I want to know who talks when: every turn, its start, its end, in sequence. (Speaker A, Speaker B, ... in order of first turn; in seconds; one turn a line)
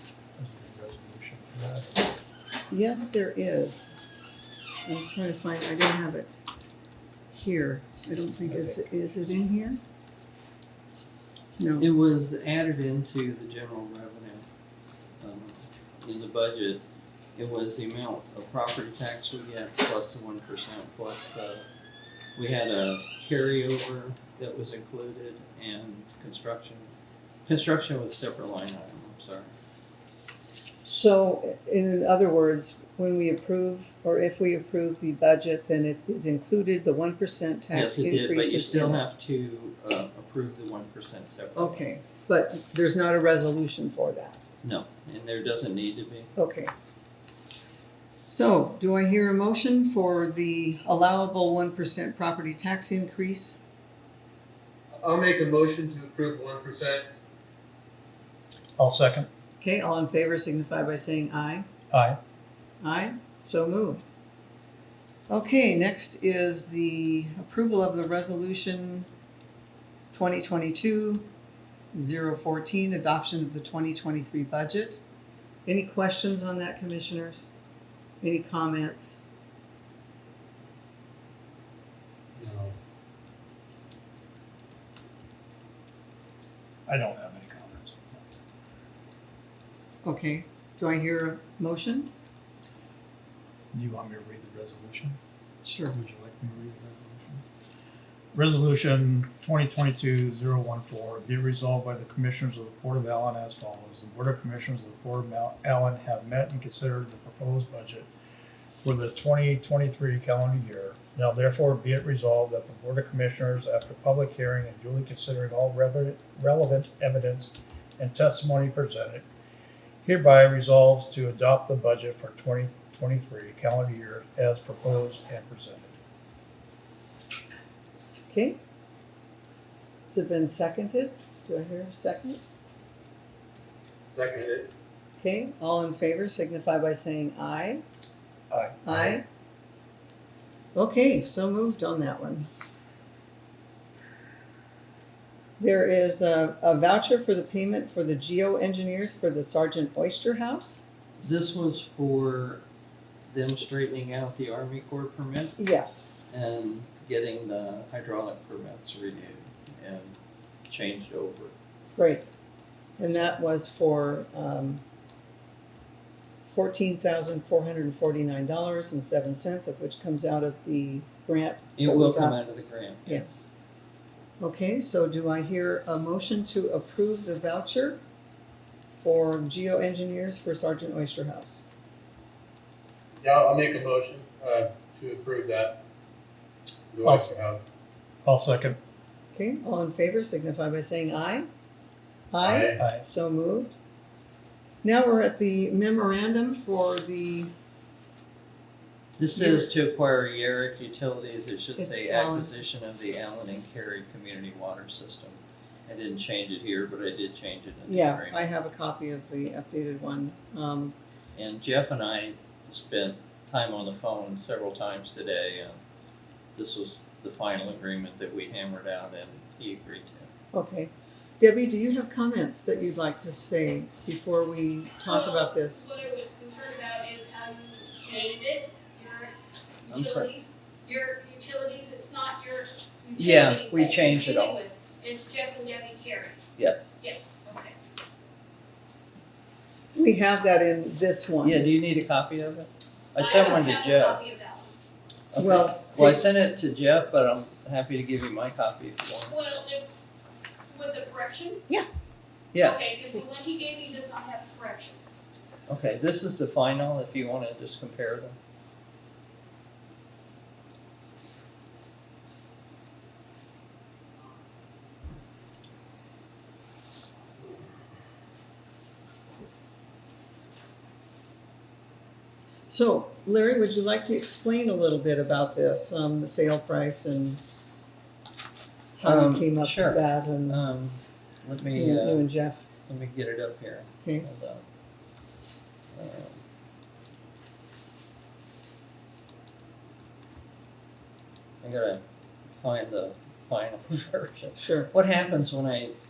Speaker A: 0.4-2.0
Speaker B: 2.7-3.9
Speaker B: 4.8-6.3
Speaker B: 7.3-9.8
Speaker A: 8.4-8.8
Speaker B: 11.6-11.9
Speaker C: 11.8-14.4
Speaker C: 15.2-16.8
Speaker C: 17.4-21.6
Speaker C: 22.4-26.9
Speaker C: 27.5-29.5
Speaker B: 30.9-39.0
Speaker C: 37.7-41.9
Speaker B: 41.5-44.4
Speaker C: 44.6-46.3
Speaker B: 46.4-46.7
Speaker B: 48.3-53.6
Speaker D: 55.0-57.1
Speaker A: 58.8-59.3
Speaker B: 59.6-61.7
Speaker A: 61.9-62.2
Speaker B: 62.8-64.0
Speaker B: 65.3-69.1
Speaker B: 70.1-71.3
Speaker B: 71.9-75.0
Speaker B: 75.6-77.5
Speaker B: 78.2-79.2
Speaker D: 82.3-82.7
Speaker A: 86.9-88.2
Speaker B: 90.0-92.1
Speaker A: 93.7-95.2
Speaker B: 95.6-96.0
Speaker A: 95.9-97.4
Speaker A: 98.3-108.1
Speaker A: 108.8-119.2
Speaker A: 120.0-126.0
Speaker B: 128.3-128.6
Speaker B: 130.1-132.4
Speaker D: 134.0-134.7
Speaker B: 135.2-137.8
Speaker A: 138.5-139.2
Speaker B: 138.8-139.2
Speaker B: 140.7-142.5
Speaker B: 145.6-150.8
Speaker C: 151.2-152.6
Speaker C: 153.3-155.6
Speaker B: 155.6-156.1
Speaker C: 156.3-160.1
Speaker C: 160.7-161.5
Speaker B: 162.0-162.2
Speaker B: 163.0-164.8
Speaker B: 166.4-172.4
Speaker C: 171.8-173.3
Speaker B: 174.4-178.0
Speaker B: 179.0-181.6
Speaker D: 183.2-185.8
Speaker D: 186.9-187.7
Speaker A: 187.0-187.3
Speaker A: 188.2-188.8
Speaker B: 189.3-191.4
Speaker B: 192.3-193.8
Speaker D: 192.4-192.8
Speaker A: 192.8-193.0
Speaker B: 194.8-197.5
Speaker C: 199.2-208.5
Speaker B: 199.3-199.7
Speaker B: 201.8-202.5
Speaker B: 207.9-210.9
Speaker C: 211.3-215.8
Speaker C: 216.6-220.3
Speaker B: 220.5-226.0
Speaker E: 225.1-236.4
Speaker C: 229.9-230.3
Speaker C: 233.2-234.6
Speaker C: 236.6-236.9
Speaker E: 237.0-237.7
Speaker B: 239.9-241.7
Speaker C: 241.4-244.2
Speaker E: 243.2-244.7
Speaker C: 245.3-249.3
Speaker B: 245.4-246.2
Speaker E: 249.3-249.8
Speaker E: 250.7-251.6
Speaker C: 252.5-252.8
Speaker E: 252.5-255.0
Speaker C: 255.7-258.3
Speaker B: 272.7-277.4
Speaker B: 279.0-280.6
Speaker C: 279.0-282.3
Speaker B: 281.7-282.6
Speaker C: 282.9-284.6
Speaker C: 285.9-286.4
Speaker C: 291.6-295.9
Speaker B: 294.6-294.9